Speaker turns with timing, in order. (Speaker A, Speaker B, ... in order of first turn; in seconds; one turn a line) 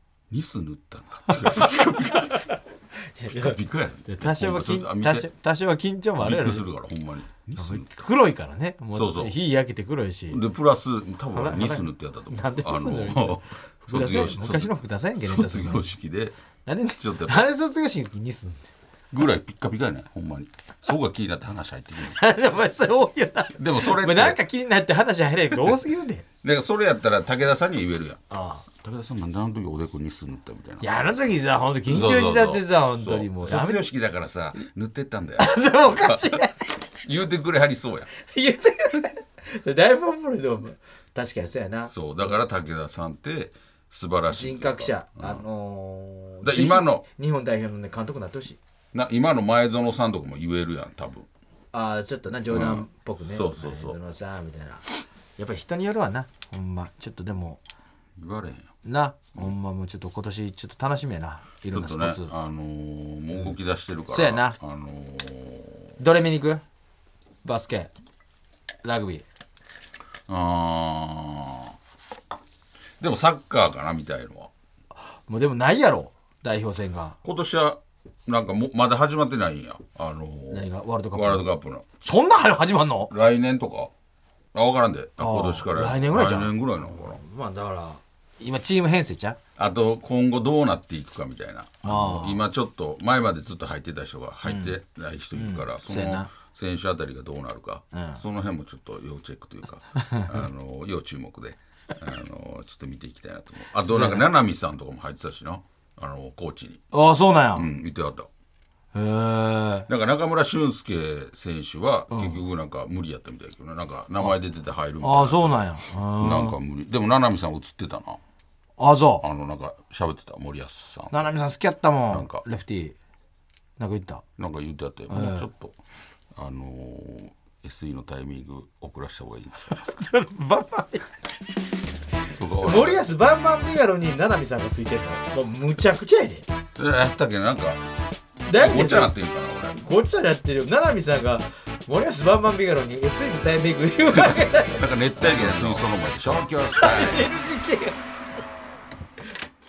Speaker A: 0.3-2.4
Speaker B: 1.5-2.5
Speaker B: 3.2-6.6
Speaker A: 3.3-5.3
Speaker A: 6.2-7.9
Speaker B: 7.6-10.4
Speaker A: 8.9-9.3
Speaker A: 10.3-16.4
Speaker B: 11.3-15.9
Speaker B: 16.7-18.7
Speaker A: 17.0-17.5
Speaker A: 19.1-22.2
Speaker B: 22.0-26.2
Speaker A: 23.6-24.4
Speaker A: 26.4-28.2
Speaker B: 28.3-28.6
Speaker A: 28.7-30.8
Speaker B: 30.8-33.9
Speaker A: 31.9-36.4
Speaker B: 35.4-36.6
Speaker A: 37.0-38.1
Speaker B: 38.2-41.9
Speaker A: 41.9-45.4
Speaker B: 44.3-48.6
Speaker A: 46.4-47.0
Speaker A: 48.9-51.3
Speaker B: 51.7-57.6
Speaker A: 52.5-54.0
Speaker A: 58.2-58.7
Speaker B: 58.9-62.3
Speaker A: 61.7-65.9
Speaker B: 64.1-64.6
Speaker B: 66.0-66.6
Speaker B: 67.4-67.9
Speaker B: 68.8-69.3
Speaker A: 70.3-71.7
Speaker A: 73.0-74.5
Speaker B: 75.3-77.2
Speaker A: 77.2-81.9
Speaker B: 80.5-81.5
Speaker B: 82.0-83.1
Speaker A: 83.1-83.9
Speaker A: 84.5-87.2
Speaker B: 85.2-89.4
Speaker A: 89.6-106.8
Speaker B: 91.8-92.4
Speaker B: 94.5-94.8
Speaker B: 95.3-96.3
Speaker B: 97.9-98.2
Speaker B: 100.0-100.3
Speaker B: 103.8-104.2
Speaker B: 106.9-107.7
Speaker A: 107.5-108.3
Speaker B: 108.9-109.9
Speaker A: 109.9-118.2
Speaker B: 112.1-112.4
Speaker B: 115.0-116.6
Speaker B: 118.8-119.2
Speaker A: 119.2-121.2
Speaker B: 121.1-123.0
Speaker A: 122.1-122.4
Speaker B: 123.8-124.2
Speaker A: 124.4-125.8
Speaker B: 125.1-125.5
Speaker A: 126.3-129.9
Speaker B: 129.6-131.1
Speaker A: 132.3-133.1
Speaker B: 132.6-136.5
Speaker A: 136.8-137.8
Speaker B: 138.5-139.1
Speaker A: 138.5-139.8
Speaker B: 139.8-145.9
Speaker A: 144.1-147.3
Speaker B: 146.7-148.0